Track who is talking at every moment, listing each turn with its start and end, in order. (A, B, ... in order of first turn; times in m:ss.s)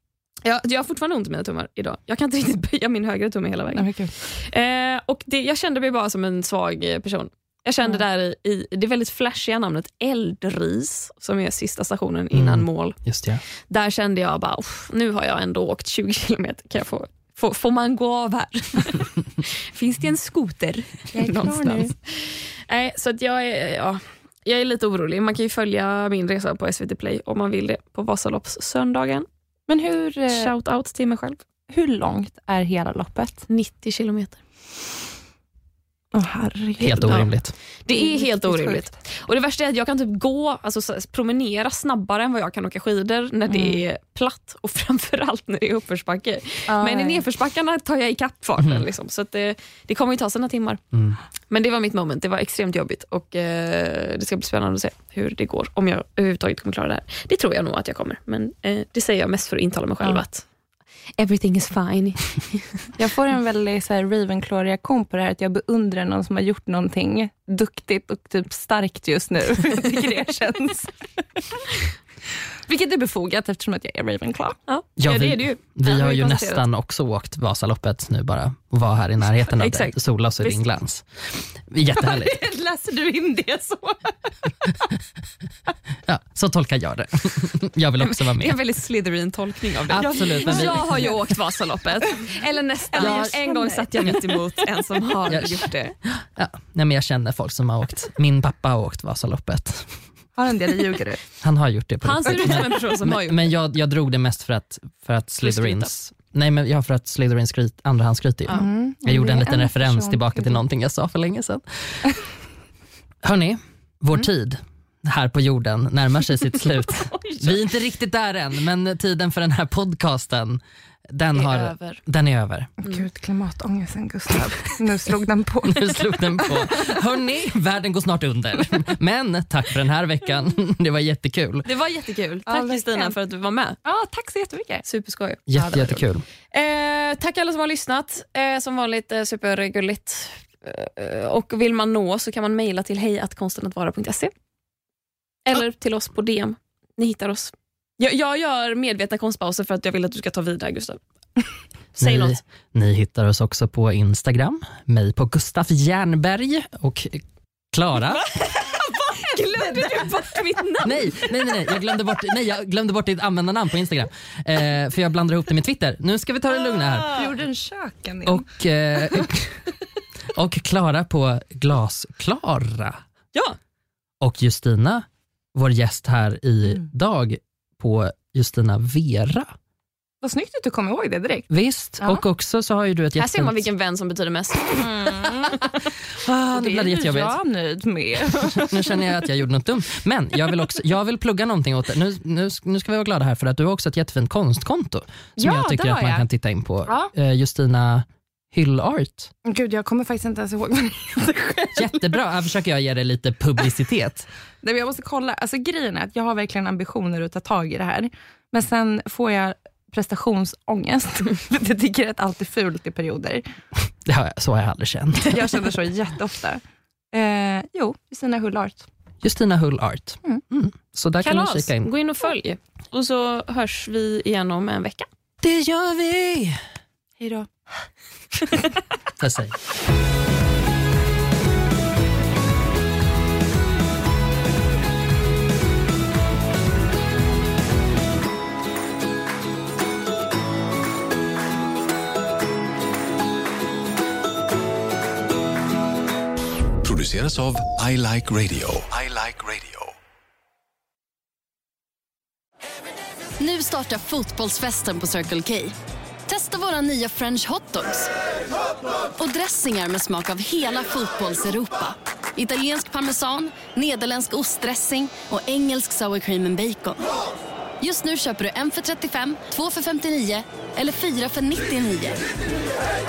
0:00.4-0:13.0 A
0:03.7-0:04.1 B
0:12.3-0:13.4 C
0:13.7-0:29.3 A
0:21.1-0:21.9 B
0:29.7-0:30.5 B
0:30.3-0:31.4 A
0:31.7-0:33.4 B
0:33.5-0:34.4 A
0:36.1-0:37.3 B
0:36.8-0:37.5 C
0:36.9-0:37.3 A
0:37.8-0:50.8 A
0:37.9-0:38.9 B
0:43.5-0:43.8 B
0:46.7-0:47.2 B
0:48.6-0:48.8 C
0:51.5-1:00.4 A
1:01.2-1:02.9 A
1:03.0-1:11.6 B
1:12.7-1:14.6 B
1:14.7-1:16.6 A
1:15.0-1:22.4 C
1:19.5-1:20.6 A
1:21.9-1:24.8 B
1:26.0-1:28.6 C
1:28.0-1:36.0 A
1:29.9-1:31.2 C
1:30.3-1:31.0 B
1:32.9-1:34.2 B
1:35.3-1:39.9 C
1:40.4-1:41.2 B
1:41.4-1:52.0 C
1:42.0-1:43.5 A
1:42.4-1:42.7 B
1:45.4-1:45.9 A
1:48.5-1:50.6 B
1:53.2-2:02.7 C
1:57.1-1:57.6 A
2:01.3-2:02.0 A
2:02.8-2:06.7 B
2:05.6-2:11.7 C
2:11.6-2:13.8 A
2:12.5-2:13.1 B
2:13.8-2:14.8 B
2:14.8-2:15.8 A
2:15.5-2:16.2 C
2:15.6-2:15.9 B
2:16.5-2:24.3 A
2:25.4-2:31.0 A
2:32.0-2:38.2 C
2:32.0-2:32.4 A
2:38.0-2:41.5 A
2:39.1-2:40.5 B
2:40.8-2:47.3 C
2:47.1-2:48.4 B
2:48.2-2:49.7 C
2:50.3-2:53.0 C
2:54.2-2:59.5 C
3:00.2-3:01.5 B
3:01.5-3:03.7 C
3:03.2-3:05.3 A
3:04.8-3:05.7 B
3:06.2-3:07.4 C
3:06.5-3:09.1 B
3:08.3-3:19.3 C
3:15.4-3:16.2 B
3:16.8-3:17.1 B
3:19.4-3:22.1 B
3:21.8-3:24.3 C
3:24.6-3:33.4 B
3:34.0-3:35.7 C
3:35.2-3:36.6 B
3:37.1-3:38.8 B
3:39.2-3:41.9 C
3:41.2-3:45.1 A
3:45.4-3:46.6 C
3:47.2-3:47.5 B
3:49.2-3:49.6 C
4:06.8-4:09.9 D
4:13.4-4:15.7 E
4:16.2-4:18.1 E
4:19.2-4:27.0 E
4:27.8-4:32.2 E